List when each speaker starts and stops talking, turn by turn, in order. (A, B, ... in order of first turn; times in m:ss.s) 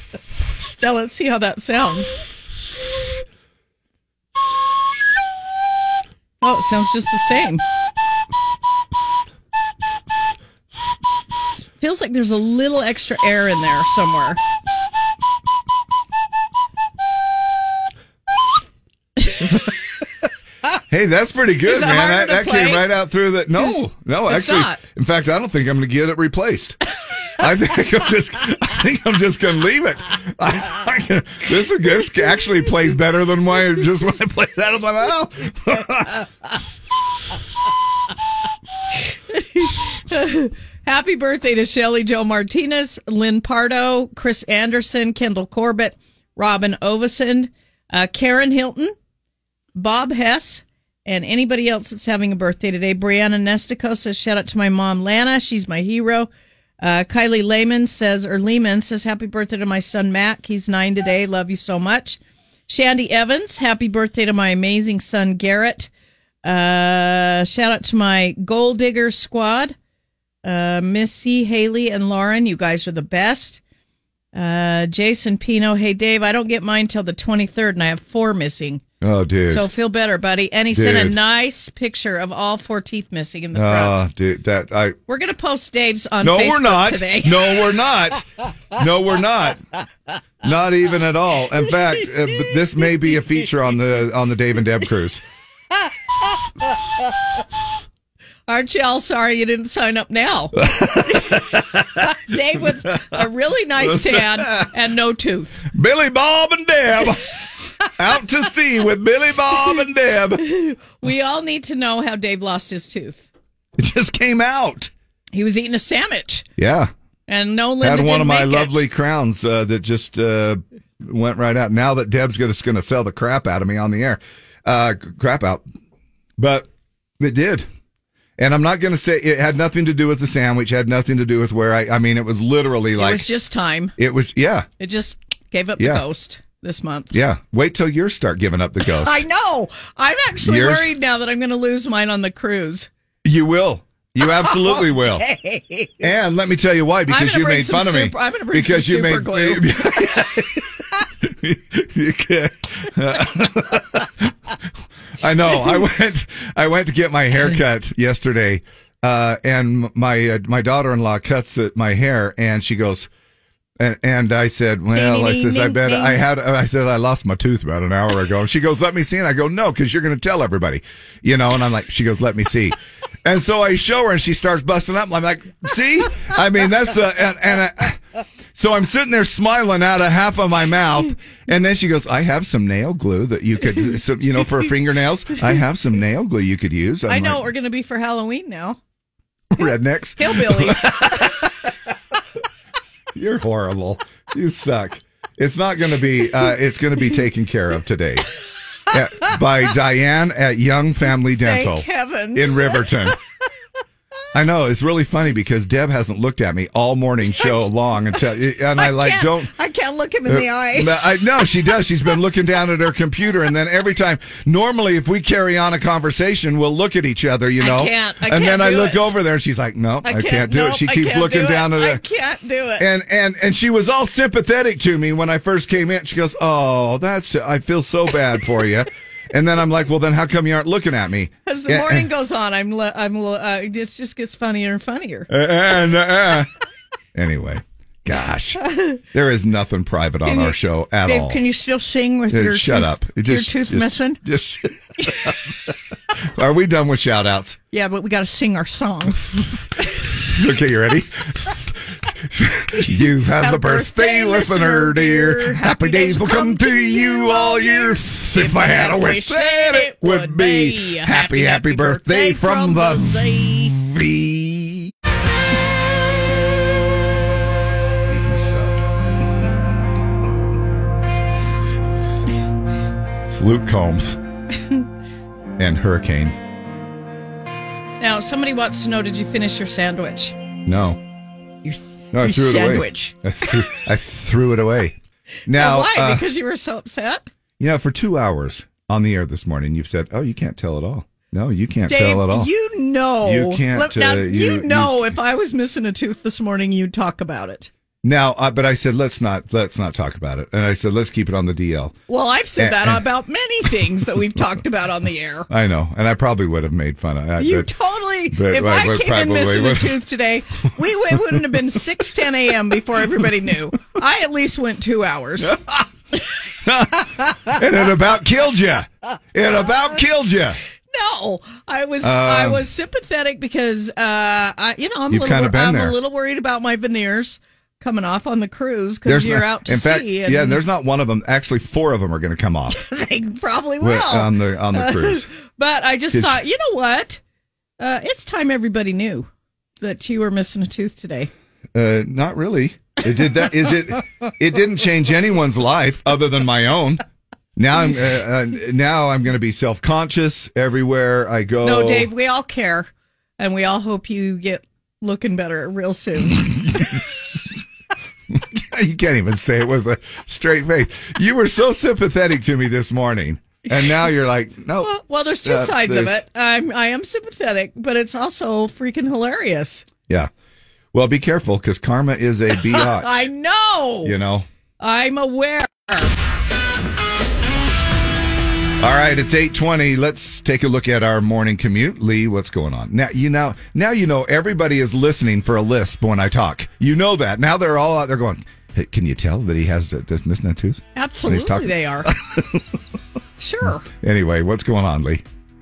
0:00.7-0:02.2 A
0:06.4-0:07.6 A
0:11.6-0:14.4 A
0:20.9-0:26.8 B
0:21.7-0:22.8 A
0:23.6-0:24.8 A
0:27.4-0:36.2 B
0:39.3-0:48.9 A
0:49.8-0:56.3 A
0:56.8-1:05.9 A
1:06.4-1:09.8 A
1:10.4-1:13.6 A
1:14.3-1:18.8 A
1:19.0-1:19.7 B
1:19.5-1:24.0 A
1:20.7-1:21.1 B
1:23.5-1:25.0 B
1:25.1-1:27.7 A
1:26.2-1:29.6 B
1:30.4-1:35.2 B
1:38.5-1:40.5 A
1:40.6-1:42.0 B
1:41.1-1:45.6 A
1:43.8-1:44.7 B
1:45.7-1:47.3 B
1:48.0-1:50.4 B
1:50.5-1:53.2 A
1:53.8-1:54.9 B
1:55.3-1:56.5 A
1:56.6-1:56.9 B
1:57.3-1:58.8 A
1:57.8-2:05.7 B
2:06.4-2:06.7 B
2:07.2-2:07.7 B
2:08.4-2:13.3 B
2:13.0-2:13.9 A
2:14.0-2:14.7 B
2:14.8-2:17.1 A
2:15.8-2:16.0 B
2:17.1-2:19.2 B
2:19.0-2:22.9 A
2:20.4-2:20.9 B
2:23.2-2:25.3 B
2:24.8-2:25.9 A
2:26.0-2:34.3 B
2:27.1-2:29.7 A
2:35.2-2:43.1 B
2:43.8-2:58.0 B
2:44.9-2:46.2 A
2:58.6-3:07.5 B
3:07.1-3:08.8 A
3:09.6-3:11.4 B
3:10.2-3:11.3 A
3:13.2-3:18.2 B
3:18.9-3:23.2 B
3:21.4-3:22.9 A
3:24.3-3:29.5 B
3:28.8-3:31.2 A
3:30.3-3:42.0 B
3:37.6-3:39.1 A
3:40.0-3:42.9 A
3:42.8-3:52.1 B
3:51.5-3:55.3 A
3:55.3-3:56.5 B
3:57.2-4:01.4 B
4:00.2-4:04.2 A
4:02.3-4:05.4 B
4:06.3-4:07.6 B
4:07.7-4:10.0 A
4:10.2-4:24.9 B
4:13.4-4:23.8 A
4:28.1-4:28.8 B
4:33.3-4:34.2 B
4:35.6-4:36.4 B
4:38.0-4:40.4 A
4:40.7-4:41.0 B
4:41.7-4:43.6 A
4:42.1-4:46.3 B
4:45.5-4:47.3 A
4:47.6-4:52.5 B
4:51.9-4:57.7 A
4:53.2-4:55.0 B
4:58.0-5:02.0 B
5:02.1-5:05.5 A
5:02.6-5:03.1 B
5:05.5-5:07.7 B
5:07.4-5:15.5 A
5:08.3-5:10.0 B
5:11.3-5:11.8 B
5:15.4-5:15.9 B
5:16.6-5:20.6 B
5:20.9-5:30.6 A
5:22.0-5:22.6 B
5:25.1-5:26.0 B
5:29.0-5:32.8 B
5:32.8-5:37.2 A
5:33.8-5:35.2 B
5:36.1-5:36.4 B
5:37.8-5:39.3 A
5:39.8-5:41.3 A
5:41.8-5:47.0 B
5:47.6-5:52.1 B
5:51.6-5:56.8 A
5:56.3-5:57.4 B
5:58.3-6:06.2 B
6:04.8-6:09.9 A
6:10.9-6:13.2 B
6:12.7-6:14.2 A
6:14.0-6:14.5 B
6:14.8-6:16.1 A
6:18.8-6:32.6 B
6:31.0-6:32.1 A
6:33.4-6:33.8 A
6:33.9-6:35.2 B